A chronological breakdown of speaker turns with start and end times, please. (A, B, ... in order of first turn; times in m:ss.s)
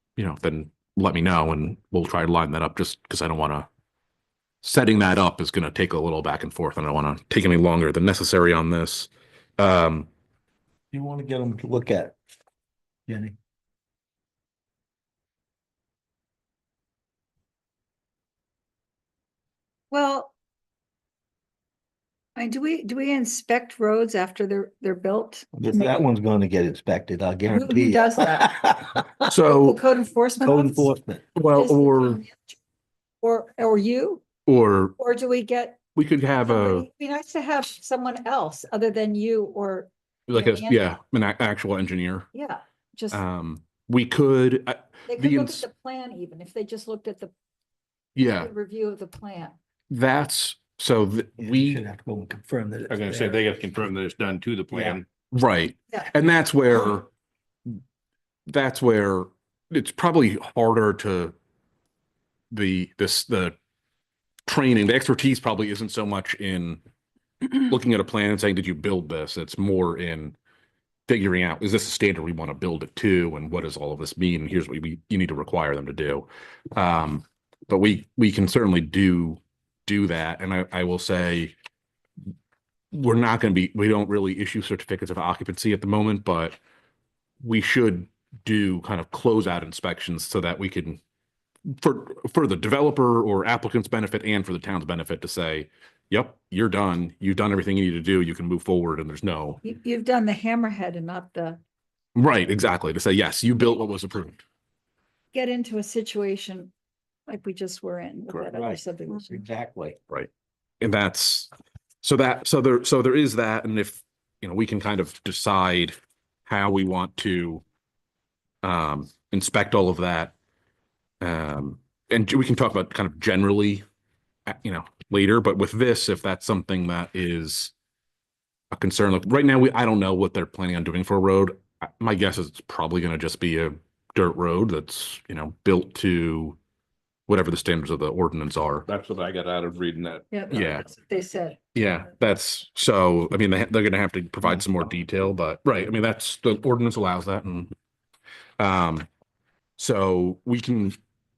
0:00.2-0:03.7 A
0:04.6-0:10.1 A
0:10.9-0:12.2 B
0:13.1-0:13.3 B
0:19.9-0:20.3 C
0:22.4-0:26.0 C
0:25.5-0:29.3 B
0:27.5-0:28.6 C
0:29.3-0:29.8 A
0:29.3-0:30.9 C
0:30.4-0:31.2 B
0:31.4-0:32.2 A
0:31.5-0:32.5 C
0:33.2-0:34.2 C
0:34.5-0:35.0 A
0:35.0-0:35.8 C
0:35.9-0:36.9 A
0:36.5-0:40.8 C
0:40.3-0:42.3 A
0:42.3-0:43.2 C
0:43.1-0:45.7 A
0:45.1-0:47.3 C
0:48.2-0:48.5 A
0:48.3-0:49.5 C
0:49.9-0:51.8 A
0:51.4-0:53.4 B
0:52.9-0:55.0 D
0:54.7-0:55.0 B
0:55.3-0:57.1 A
0:58.5-1:01.3 A
1:02.5-1:03.6 A
1:04.5-1:06.8 A
1:07.5-1:10.4 A
1:11.1-1:21.5 A
1:22.9-1:26.6 A
1:27.4-1:31.0 A
1:31.8-1:39.6 A
1:39.6-1:41.6 C
1:42.1-1:44.4 A
1:45.3-1:46.7 C
1:47.3-1:49.4 C
1:48.4-1:50.0 B
1:50.8-1:51.5 A
1:52.0-1:55.9 A
1:56.4-1:57.6 A
1:58.6-2:00.3 A
2:01.2-2:03.8 A
2:04.5-2:07.7 A
2:08.7-2:16.6 A
2:17.3-2:18.9 A
2:18.9-2:20.6 D
2:20.3-2:21.6 C
2:20.5-2:20.9 A
2:21.7-2:27.7 A
2:28.6-2:29.1 A
2:29.8-2:31.0 A